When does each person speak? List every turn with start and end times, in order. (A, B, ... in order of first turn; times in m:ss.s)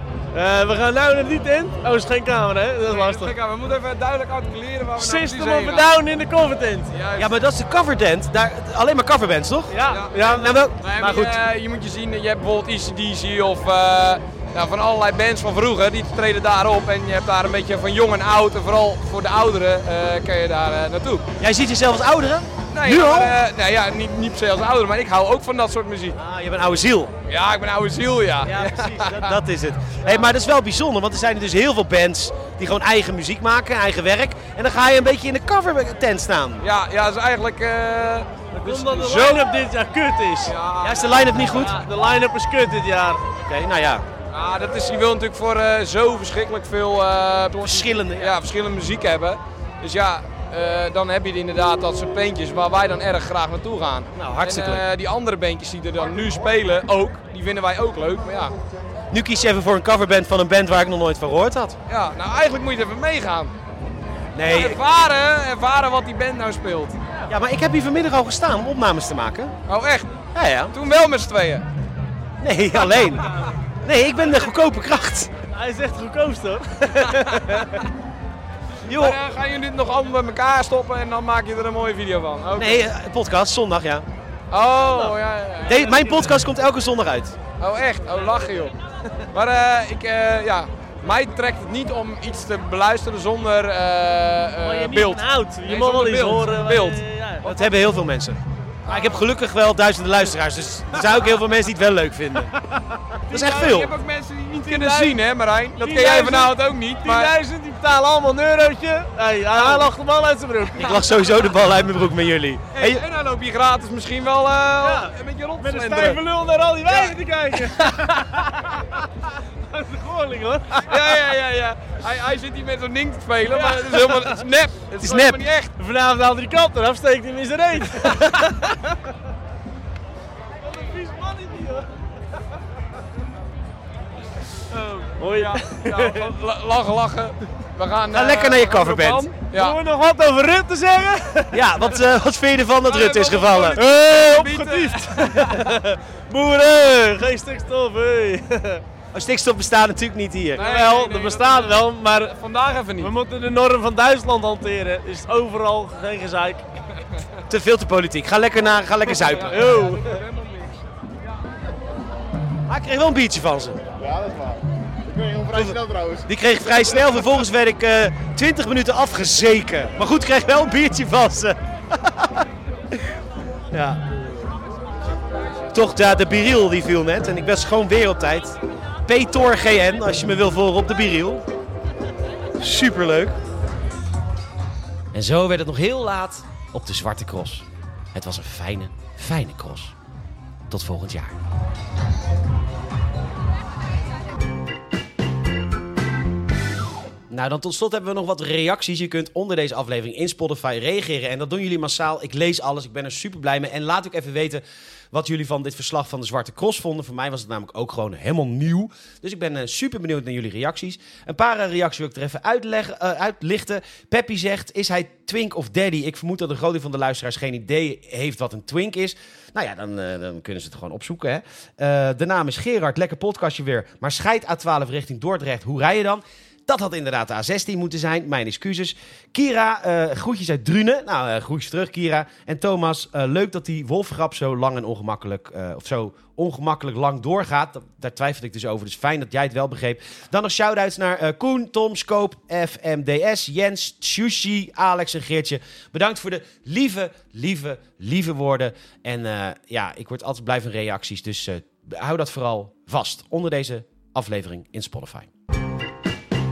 0:00.3-0:03.3 A
0:02.9-0:05.9 B
0:05.0-0:06.9 A
0:06.9-0:07.3 B
0:07.2-0:10.8 C
0:09.7-0:11.3 A
0:09.9-0:10.2 B
0:10.8-0:21.2 B
0:21.4-0:23.3 C
0:22.7-0:26.2 B
0:26.1-0:27.1 C
0:27.3-0:29.3 B
0:28.4-0:36.6 C
0:36.6-0:39.5 B
0:38.5-0:40.6 A
0:40.5-0:41.6 B
0:40.8-0:41.8 C
0:41.6-0:43.2 A
0:43.5-0:44.0 C
0:44.3-0:58.5 B
0:47.6-0:48.3 C
0:54.2-0:54.8 C
0:59.1-1:01.8 C
1:01.9-1:03.5 B
1:04.4-1:04.8 C
1:04.5-1:07.0 B
1:07.3-1:09.5 C
1:09.7-1:10.1 B
1:10.3-1:10.8 C
1:10.7-1:11.6 B
1:12.4-1:13.3 C
1:13.8-1:15.3 C
1:15.5-1:16.9 A
1:17.0-1:17.6 C
1:18.9-1:19.2 C
1:18.9-1:22.8 B
1:22.6-1:24.1 C
1:24.5-1:25.8 B
1:24.8-1:25.1 A
1:25.7-1:27.4 C
1:25.8-1:26.3 A
1:27.6-1:28.7 B
1:29.3-1:37.0 B
1:34.6-1:37.5 A
1:37.4-1:42.5 C
1:43.3-1:43.9 C
1:43.3-1:47.3 B
1:44.6-1:45.2 A
1:45.8-1:51.0 A
1:49.5-1:49.9 B
1:50.8-1:53.0 C
1:52.8-1:56.2 B
1:54.8-1:58.6 A
1:56.9-1:57.2 B
1:59.7-2:00.9 A
2:00.9-2:05.7 B
2:03.5-2:04.3 A
2:05.0-2:05.4 C
2:05.8-2:09.0 A
2:10.6-2:11.9 A
2:14.7-2:16.3 A
2:15.3-2:19.8 B
2:18.1-2:19.3 C
2:19.5-2:21.6 A
2:21.5-2:23.8 C
2:22.8-2:25.6 B
2:23.7-2:28.8 A
2:29.1-2:30.6 C
2:30.6-2:33.1 B
2:30.6-2:32.4 A
2:33.0-2:36.6 A
2:37.5-2:39.6 C
2:39.3-2:40.6 B
2:39.4-2:40.2 A
2:42.7-2:43.8 C
2:44.0-2:46.3 D
2:45.5-2:52.4 C
2:53.7-2:54.0 C
2:55.7-3:01.4 C
3:02.6-3:03.4 C
3:05.1-3:10.0 C
3:10.7-3:11.4 C
3:17.3-4:15.3 C